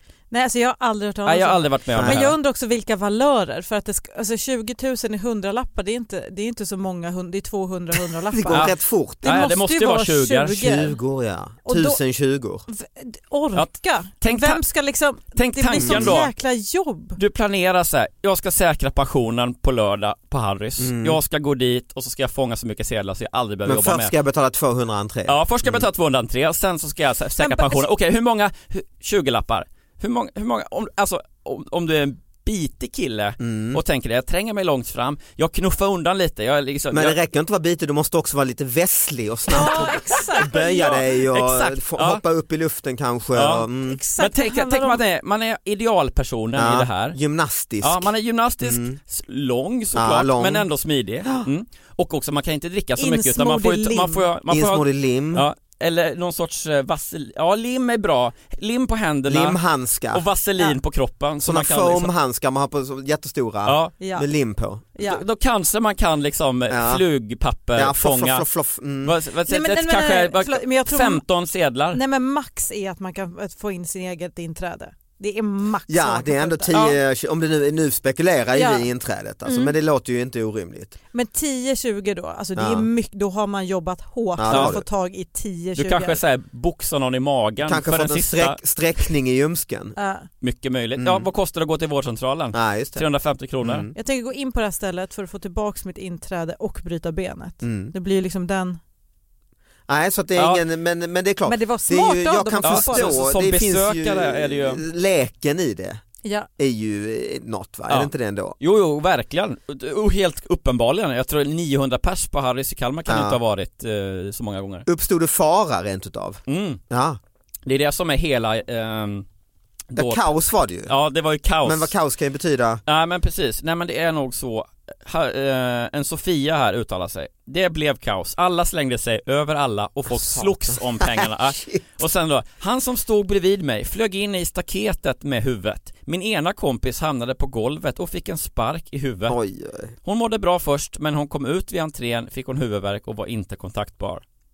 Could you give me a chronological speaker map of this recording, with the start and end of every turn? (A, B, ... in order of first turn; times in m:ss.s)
0:00.3-0:11.0 A
0:01.2-0:02.3 B
0:08.3-0:09.5 C
0:08.5-0:10.6 B
0:10.6-0:12.6 C
0:11.6-0:12.0 A
0:12.7-0:17.2 A
0:13.5-0:14.6 B
0:15.3-0:16.3 B
0:15.8-0:16.1 C
0:17.2-0:24.1 B
0:20.8-0:21.2 C
0:23.6-0:25.9 C
0:25.3-0:37.2 B
0:27.4-0:27.8 A
0:33.4-0:33.8 C
0:36.9-0:44.0 C
0:39.5-0:41.1 A
0:41.3-0:42.2 B
0:43.4-0:47.2 B
0:43.9-0:45.0 A
0:46.5-0:48.1 C
0:47.8-0:59.6 B
0:48.6-0:49.0 C
0:49.9-0:50.7 C
0:51.2-0:51.5 C
0:53.0-0:54.3 A
0:54.5-0:55.5 C
0:59.3-1:00.3 C
1:00.1-1:02.1 B
1:01.4-1:04.8 C
1:03.6-1:03.9 B
1:04.0-1:04.3 A
1:04.9-1:05.2 A
1:05.0-1:08.4 B
1:06.7-1:07.0 C
1:07.7-1:09.2 C
1:09.0-1:12.0 B
1:09.5-1:11.2 A
1:11.9-1:17.0 A
1:15.9-1:21.0 C
1:18.5-1:18.9 A
1:19.4-1:19.7 A
1:21.1-1:26.2 A
1:22.5-1:22.9 C
1:24.4-1:24.8 C
1:24.5-1:24.7 B
1:25.8-1:28.6 B
1:27.6-1:29.9 C
1:30.0-1:30.3 A
1:30.4-1:33.9 B
1:31.0-1:31.2 C
1:32.5-1:33.1 C
1:33.6-1:33.9 C
1:33.9-1:38.8 A
1:37.6-1:37.9 C
1:39.9-1:46.0 C
1:40.4-1:40.6 B
1:41.4-1:43.3 A
1:42.6-1:44.8 B
1:46.6-1:48.6 C
1:47.9-1:54.8 B
1:53.1-1:53.4 C
1:54.8-1:57.2 C
1:56.5-1:56.8 B
1:57.6-1:59.2 B
1:59.9-2:00.3 B
1:59.9-2:00.9 C
2:00.8-2:01.9 B
2:01.6-2:02.8 C
2:02.8-2:19.4 B
2:10.1-2:11.8 C
2:19.3-2:19.9 C
2:20.0-2:24.2 B